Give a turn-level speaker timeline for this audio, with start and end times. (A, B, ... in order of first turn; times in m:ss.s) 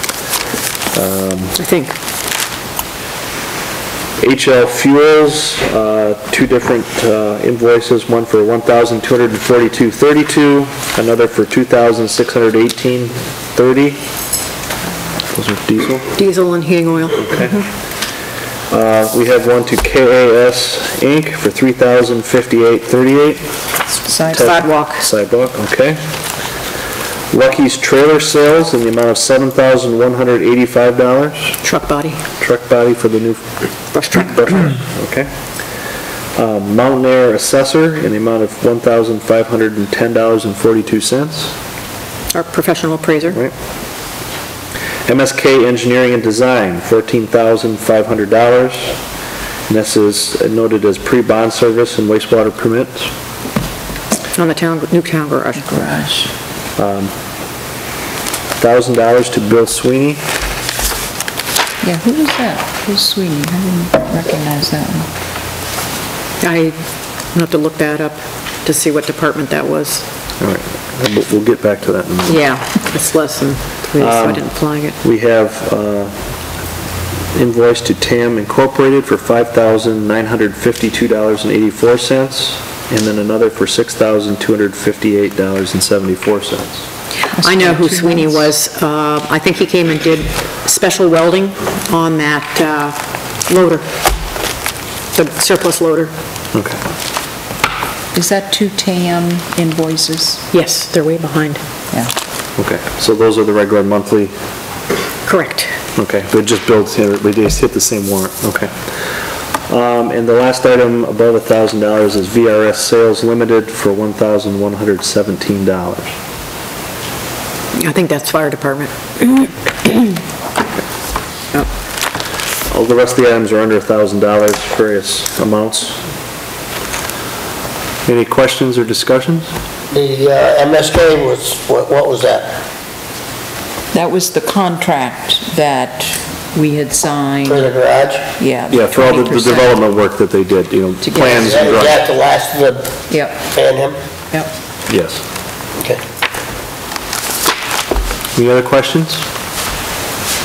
0:00.9-0:01.6 A
0:01.6-0:01.9 B
0:04.2-0:14.0 A
0:15.3-0:16.1 A
0:16.2-0:17.5 B
0:17.2-0:17.7 A
0:18.7-0:23.5 A
0:24.1-0:24.5 C
0:24.1-0:26.0 A
0:24.3-0:25.0 B
0:27.3-0:31.6 A
0:31.6-0:32.2 B
0:32.4-0:33.4 A
0:33.9-0:34.5 B
0:34.1-0:35.3 A
0:36.4-0:41.5 A
0:42.3-0:43.4 B
0:45.0-0:49.0 A
0:49.7-0:53.1 A
0:54.4-0:55.7 B
0:55.6-0:56.3 C
0:56.8-0:57.1 A
0:58.6-1:00.2 A
1:01.8-1:05.1 C
1:06.4-1:06.8 B
1:07.3-1:10.0 B
1:10.4-1:12.5 A
1:12.3-1:15.0 B
1:14.0-1:14.5 A
1:15.0-1:16.1 A
1:17.3-1:26.8 A
1:27.3-1:28.5 C
1:27.4-1:33.8 B
1:35.1-1:36.1 B
1:36.5-1:36.8 A
1:38.1-1:40.4 C
1:40.5-1:41.6 B
1:42.6-1:44.3 A
1:45.2-1:45.7 B
1:45.9-1:49.1 A
1:49.7-1:56.1 A
1:57.8-2:00.1 B
2:02.7-2:06.0 A
2:08.0-2:09.5 A
2:09.9-2:12.5 D
2:13.9-2:17.7 C
2:17.5-2:18.3 D
2:18.4-2:19.8 C
2:18.7-2:22.0 A
2:21.0-2:21.5 C
2:21.2-2:22.9 D
2:23.1-2:23.4 C
2:23.5-2:24.0 D
2:24.9-2:25.2 A
2:28.3-2:29.2 A